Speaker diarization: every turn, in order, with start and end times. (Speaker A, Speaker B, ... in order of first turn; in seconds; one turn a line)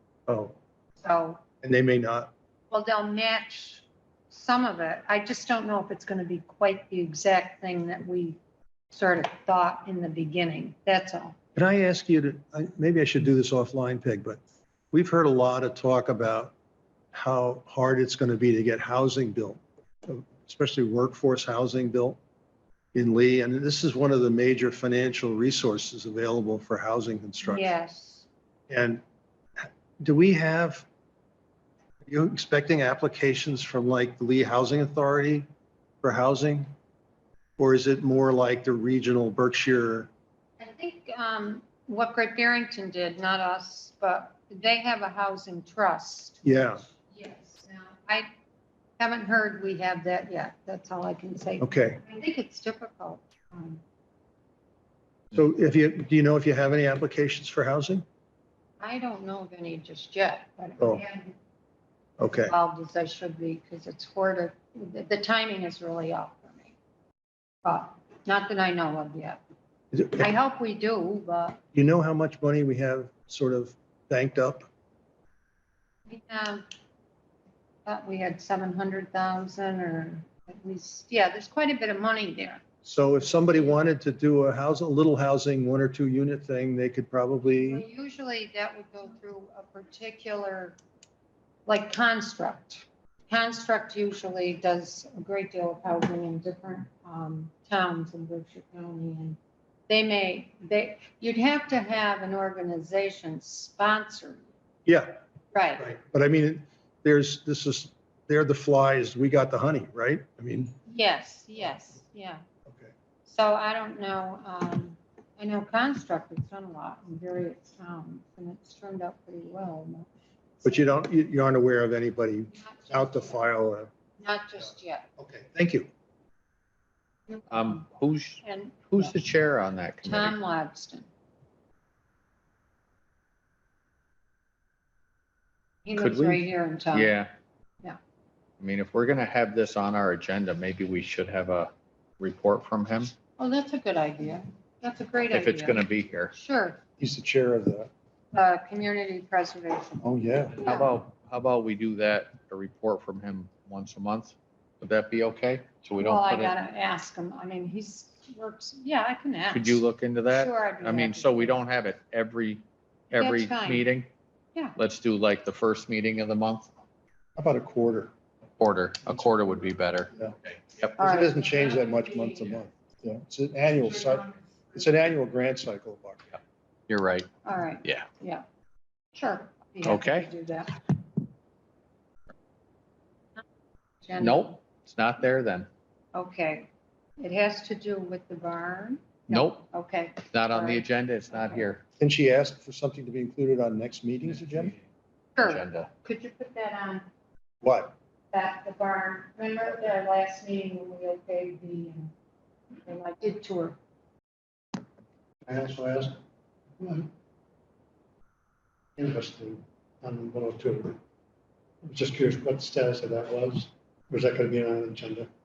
Speaker A: 0.3-0.6
Speaker B: 1.0-1.4
Speaker A: 1.6-2.3
Speaker B: 2.7-8.4
Speaker B: 8.9-11.4
Speaker A: 11.6-14.4
Speaker A: 14.9-16.5
Speaker A: 17.1-22.2
Speaker A: 22.9-27.7
Speaker B: 27.4-28.3
Speaker A: 28.7-29.0
Speaker A: 29.6-30.9
Speaker A: 32.1-35.5
Speaker A: 36.0-36.7
Speaker A: 37.6-40.1
Speaker B: 40.6-48.3
Speaker A: 46.4-46.8
Speaker B: 49.0-53.8
Speaker A: 51.6-52.0
Speaker A: 55.3-58.0
Speaker B: 58.8-61.4
Speaker A: 62.2-62.5
Speaker B: 62.3-66.7
Speaker B: 67.6-69.4
Speaker A: 69.9-70.2
Speaker B: 70.1-71.6
Speaker A: 71.7-74.7
Speaker B: 76.1-76.7
Speaker B: 77.8-82.6
Speaker A: 82.8-87.8
Speaker B: 87.5-90.8
Speaker B: 91.7-99.4
Speaker B: 99.9-104.4
Speaker A: 104.9-105.2
Speaker B: 105.5-105.9
Speaker A: 105.8-110.8
Speaker B: 110.9-112.4
Speaker B: 113.3-120.1
Speaker A: 120.6-123.9
Speaker B: 122.5-123.4
Speaker B: 124.2-125.1
Speaker A: 124.7-125.9
Speaker C: 127.5-130.4
Speaker B: 128.4-129.1
Speaker B: 130.1-131.1
Speaker B: 135.8-137.2
Speaker C: 136.0-137.3
Speaker C: 138.6-143.1
Speaker B: 143.4-146.8
Speaker C: 145.3-146.3
Speaker A: 147.0-147.9
Speaker B: 148.3-150.0
Speaker A: 150.0-150.6
Speaker B: 150.6-150.9
Speaker C: 150.6-156.5
Speaker B: 156.0-161.6
Speaker C: 159.5-164.1
Speaker B: 163.1-163.9
Speaker C: 164.8-166.7
Speaker A: 167.4-168.1
Speaker C: 168.6-170.9
Speaker B: 171.0-172.3
Speaker A: 171.0-176.3
Speaker C: 176.9-177.3
Speaker B: 177.4-178.4
Speaker B: 179.2-180.9
Speaker C: 179.8-180.3
Speaker B: 184.0-184.6
Speaker C: 184.2-185.7
Speaker B: 186.1-191.7
Speaker C: 189.3-189.6
Speaker C: 190.3-191.8
Speaker A: 192.0-194.8
Speaker B: 195.4-197.1
Speaker C: 195.4-195.9
Speaker A: 197.6-197.9
Speaker B: 198.3-202.1
Speaker B: 202.8-203.8
Speaker D: 205.5-206.2
Speaker D: 206.8-207.1
Speaker D: 209.0-211.0
Speaker D: 211.8-215.3